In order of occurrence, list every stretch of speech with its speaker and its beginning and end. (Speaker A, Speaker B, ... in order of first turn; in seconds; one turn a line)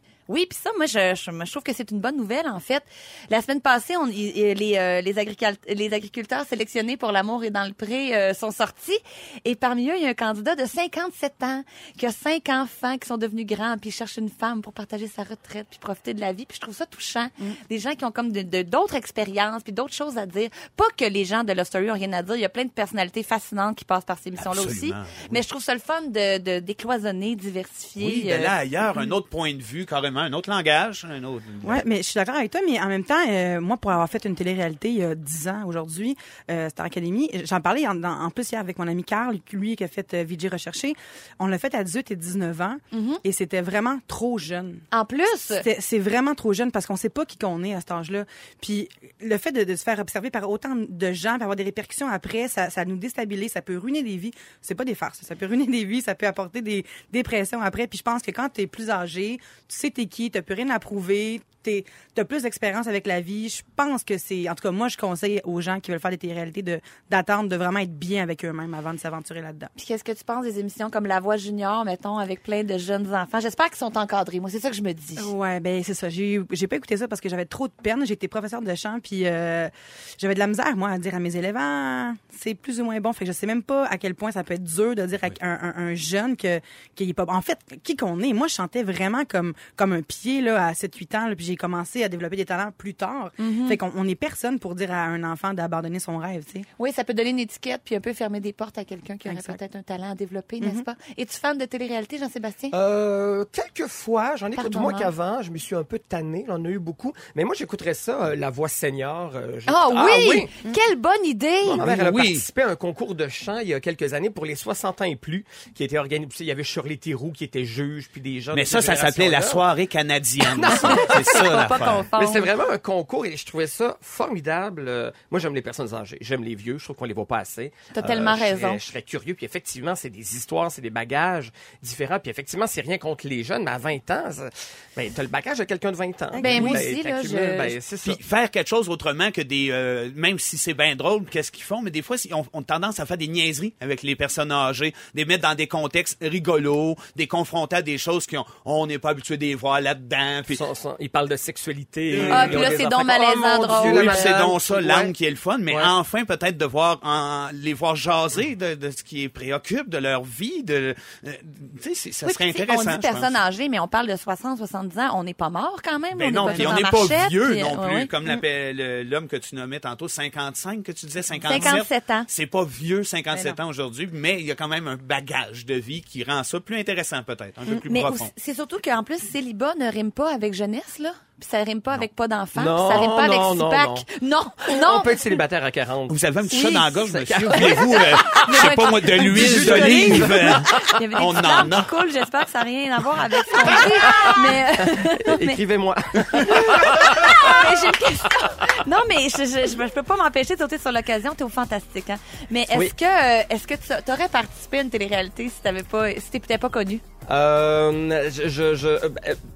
Speaker A: 0.3-28.5
Speaker B: 24.4-25.4
Speaker B: 28.0-31.8
Speaker C: 31.6-44.8
Speaker A: 42.9-43.2
Speaker A: 44.9-45.7
Speaker C: 45.5-69.7
Speaker A: 69.8-75.3
Speaker C: 75.2-96.7
Speaker A: 93.4-93.8
Speaker A: 96.8-102.7
Speaker C: 99.2-99.6
Speaker D: 102.7-110.5
Speaker A: 104.5-105.1
Speaker A: 109.7-111.8
Speaker D: 111.6-119.7
Speaker B: 111.8-112.5
Speaker B: 118.5-122.1
Speaker D: 120.4-138.2
Speaker A: 120.7-122.5
Speaker A: 127.9-128.8
Speaker C: 136.3-136.8
Speaker A: 136.3-137.8
Speaker B: 138.0-150.6
Speaker D: 150.5-155.1
Speaker B: 152.1-152.8
Speaker A: 152.3-154.4
Speaker B: 153.8-163.4
Speaker D: 155.7-155.9
Speaker A: 162.2-168.1
Speaker B: 166.1-178.3
Speaker C: 166.4-166.8
Speaker A: 171.4-172.3
Speaker C: 171.5-171.7
Speaker A: 177.8-185.2
Speaker D: 182.5-184.1
Speaker D: 184.7-186.2
Speaker B: 186.1-191.9
Speaker A: 186.5-195.6
Speaker D: 187.1-190.9
Speaker D: 193.7-197.7
Speaker A: 196.4-207.0
Speaker D: 202.7-202.9
Speaker D: 207.3-209.4